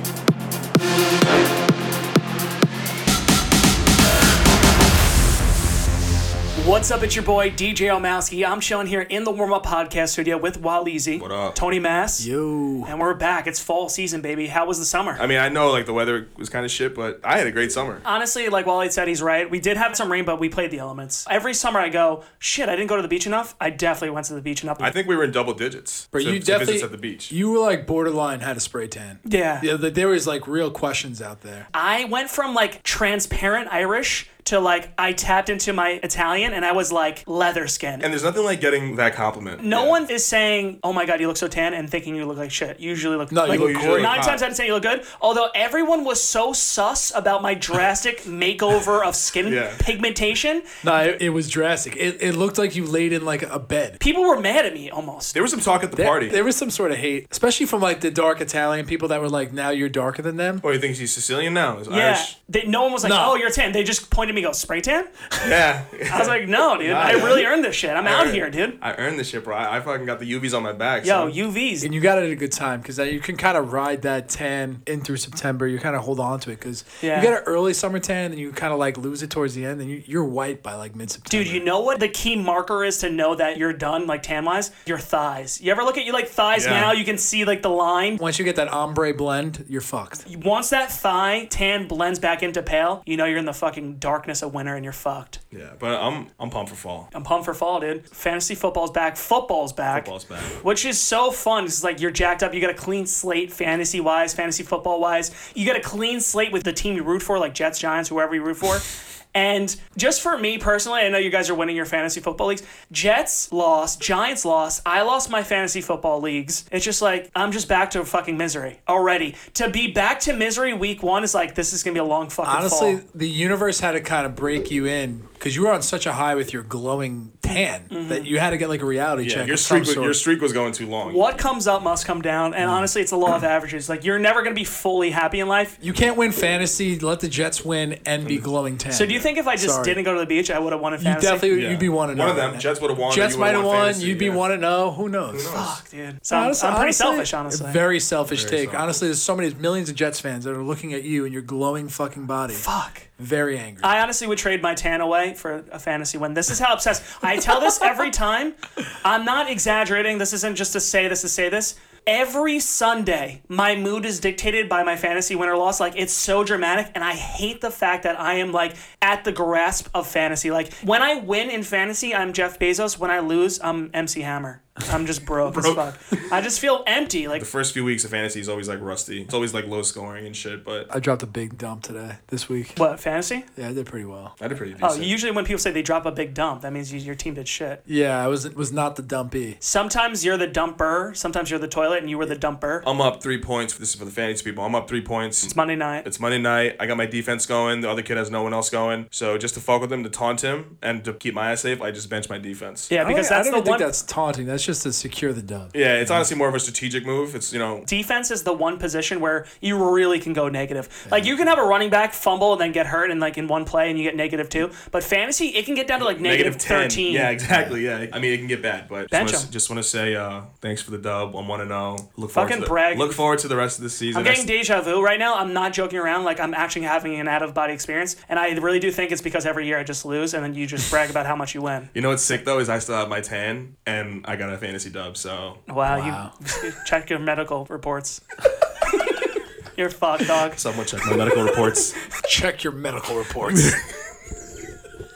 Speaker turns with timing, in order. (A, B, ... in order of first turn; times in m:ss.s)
0:06.6-0:12.3 A
0:11.2-0:11.6 B
0:12.2-0:12.9 C
0:12.8-0:15.2 A
0:15.2-0:18.0 B
0:18.0-0:24.9 A
0:24.8-0:27.3 B
0:26.1-0:31.7 C
0:29.2-0:29.7 A
0:31.7-0:38.1 A
0:38.0-0:40.0 B
0:39.6-0:50.7 A
0:43.3-0:44.2 C
0:43.5-0:44.5 B
0:49.4-0:49.8 B
0:50.8-0:54.0 C
0:54.0-0:55.4 A
0:55.3-0:56.4 B
0:56.0-1:00.6 C
1:00.6-1:02.3 B
1:01.9-1:05.1 A
1:03.0-1:03.4 C
1:05.4-1:11.4 B
1:06.1-1:08.8 A
1:11.0-1:11.9 A
1:11.8-1:21.6 C
1:17.0-1:17.3 A
1:21.3-1:28.2 A
1:26.5-1:27.0 B
1:28.2-1:30.2 C
1:30.3-1:35.4 A
1:35.5-1:37.1 B
1:37.1-2:03.0 A
1:39.9-1:40.6 B
2:02.4-2:10.2 C
2:07.9-2:08.3 A
2:09.2-2:11.3 B
2:11.0-2:15.8 A
2:12.6-2:12.9 C
2:15.8-2:20.0 C
2:18.9-2:21.5 A
2:21.0-2:25.6 C
2:21.5-2:24.4 B
2:25.3-2:25.8 B
2:25.5-2:27.8 A
2:26.3-2:32.7 C
2:28.3-2:29.0 B
2:32.5-2:33.1 A
2:33.2-2:34.0 C
2:33.8-2:57.5 A
2:55.5-2:55.8 B
2:57.4-3:00.9 B
3:00.9-3:02.8 C
3:02.8-3:03.5 A
3:03.6-3:04.4 C
3:04.4-3:05.1 B
3:04.8-3:07.8 A
3:07.9-3:09.6 C
3:09.6-3:12.9 A
3:12.8-3:22.9 B
3:15.5-3:16.1 A
3:22.9-3:24.0 A
3:23.0-3:26.3 C
3:25.7-3:27.9 B
3:27.9-3:37.3 A
3:31.1-3:31.3 C
3:36.0-3:44.5 B
3:39.1-3:39.5 A
3:42.4-3:43.2 A
3:44.1-3:51.9 A
3:51.9-3:55.6 B
3:55.7-3:58.2 A
3:55.9-3:56.3 C
3:59.8-4:00.6 A
4:00.5-4:02.0 B
4:02.2-4:03.8 C
4:03.4-4:03.9 B